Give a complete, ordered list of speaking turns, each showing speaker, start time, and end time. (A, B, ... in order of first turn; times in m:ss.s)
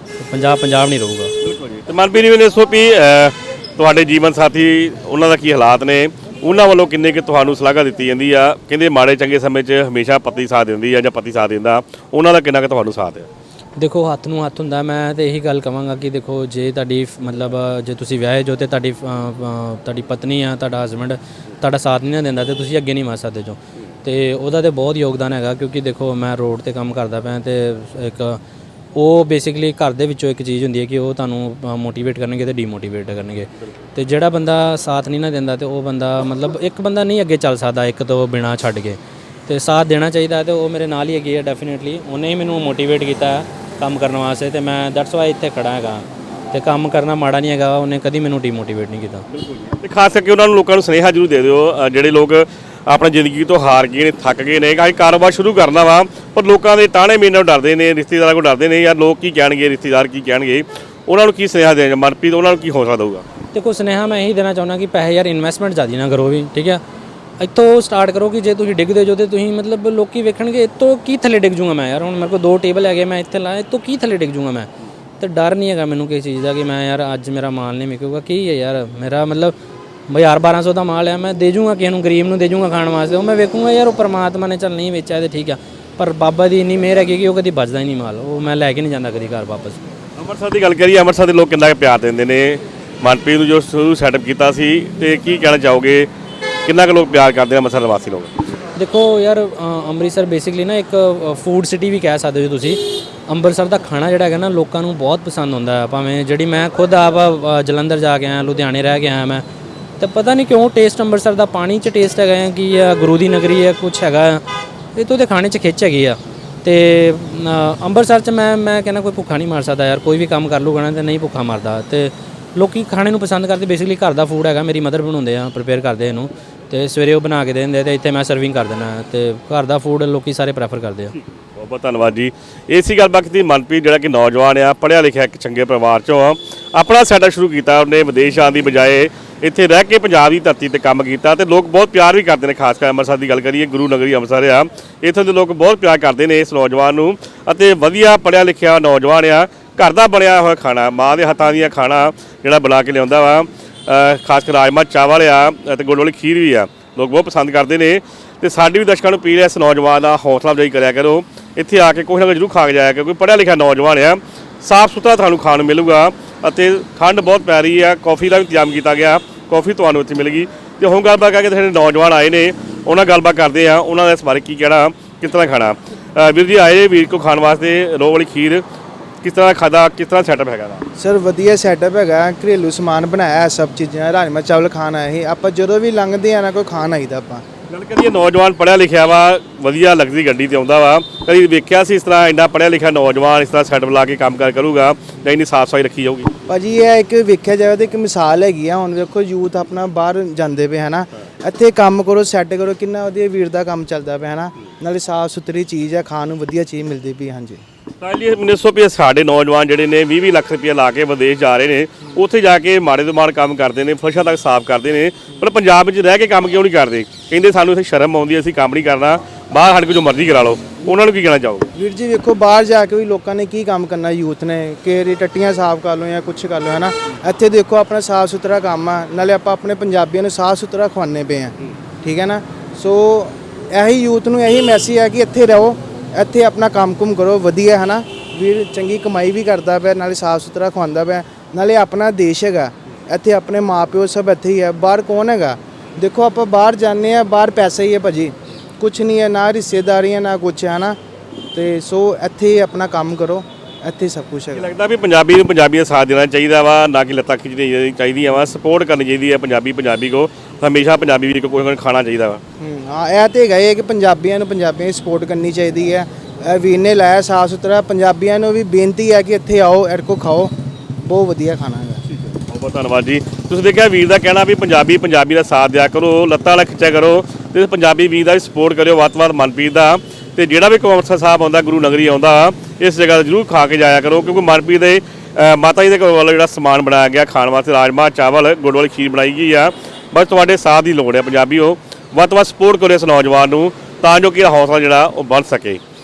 0:00.2-0:01.3 A
0:01.4-0:13.3 B
0:13.8-0:28.4 A
0:29.0-0:49.2 A
0:49.3-1:03.2 B
1:03.5-1:06.8 A
1:07.4-1:14.7 A
1:15.2-1:19.5 A
1:20.1-1:29.8 A
1:30.2-1:36.1 B
1:36.6-1:38.3 B
1:38.8-1:49.4 A
1:50.0-1:54.4 A
1:55.0-2:11.1 A
2:11.2-2:58.6 B
2:59.2-3:00.8 B
3:01.0-3:07.4 C
3:07.7-3:16.3 B
3:16.5-3:27.6 C
3:28.0-3:41.7 B
3:41.8-4:11.0 C
4:11.5-4:14.7 C
4:14.5-4:22.4 B
4:22.6-4:32.0 C
4:32.1-4:55.8 B